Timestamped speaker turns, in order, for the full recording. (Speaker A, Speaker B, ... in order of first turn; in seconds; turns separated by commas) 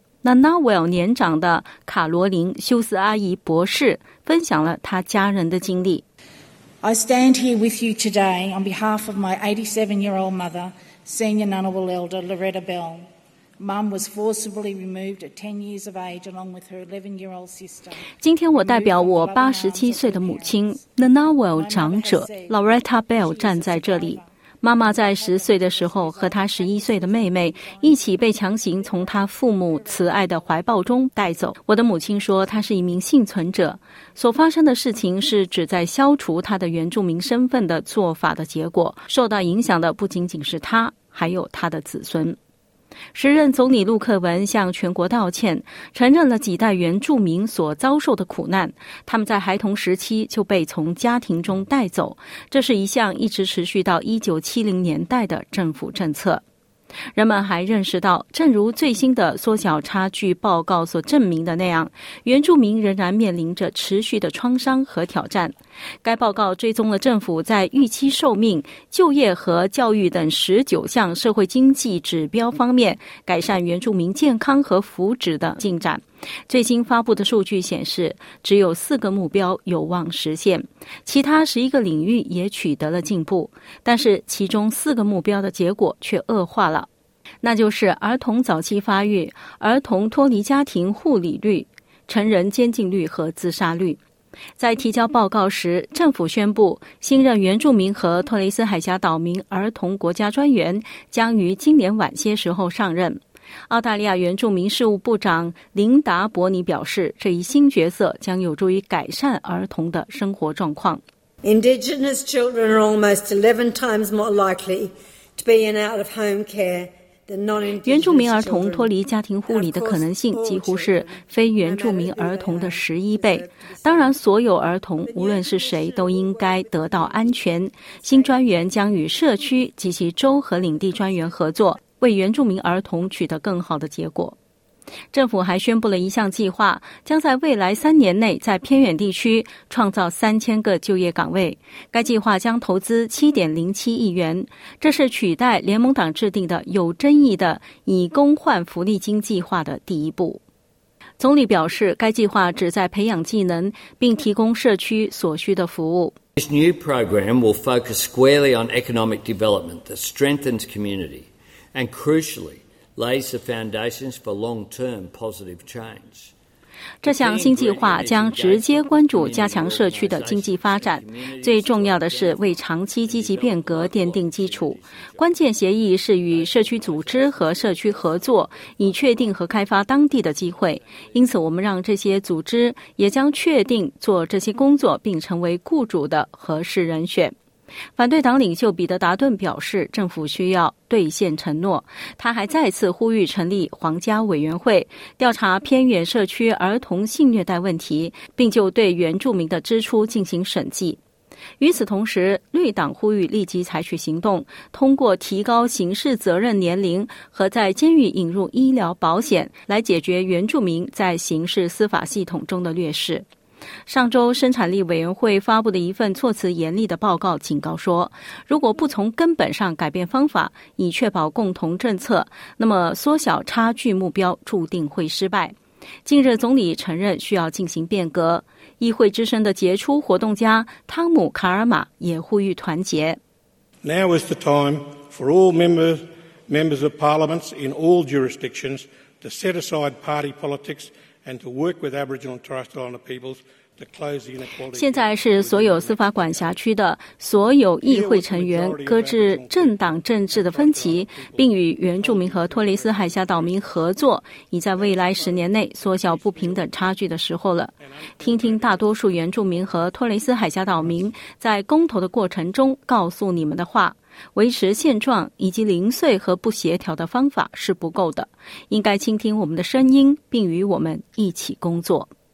Speaker A: 0.2-6.0, Speaker B: 6.8-13.1, Speaker B: 13.6-20.9, Speaker A: 18.2-42.4, Speaker B: 21.5-22.6, Speaker B: 23.2-30.4, Speaker A: 43.1-56.4, Speaker A: 57.1-86.9, Speaker A: 87.4-94.0, Speaker A: 94.6-111.0, Speaker C: 111.4-118.9, Speaker A: 117.8-134.4, Speaker C: 119.5-124.1, Speaker C: 125.0-129.5, Speaker A: 135.1-150.4, Speaker A: 151.2-156.2, Speaker D: 156.4-166.3, Speaker D: 167.0-175.4, Speaker A: 167.0-187.3, Speaker D: 176.2-179.5, Speaker D: 180.0-181.3, Speaker A: 188.0-201.0, Speaker A: 201.6-213.3, Speaker A: 213.9-233.2, Speaker E: 233.8-246.6, Speaker A: 244.7-272.1, Speaker E: 247.8-253.9, Speaker E: 254.7-256.9, Speaker E: 257.8-259.8, Speaker E: 260.8-261.2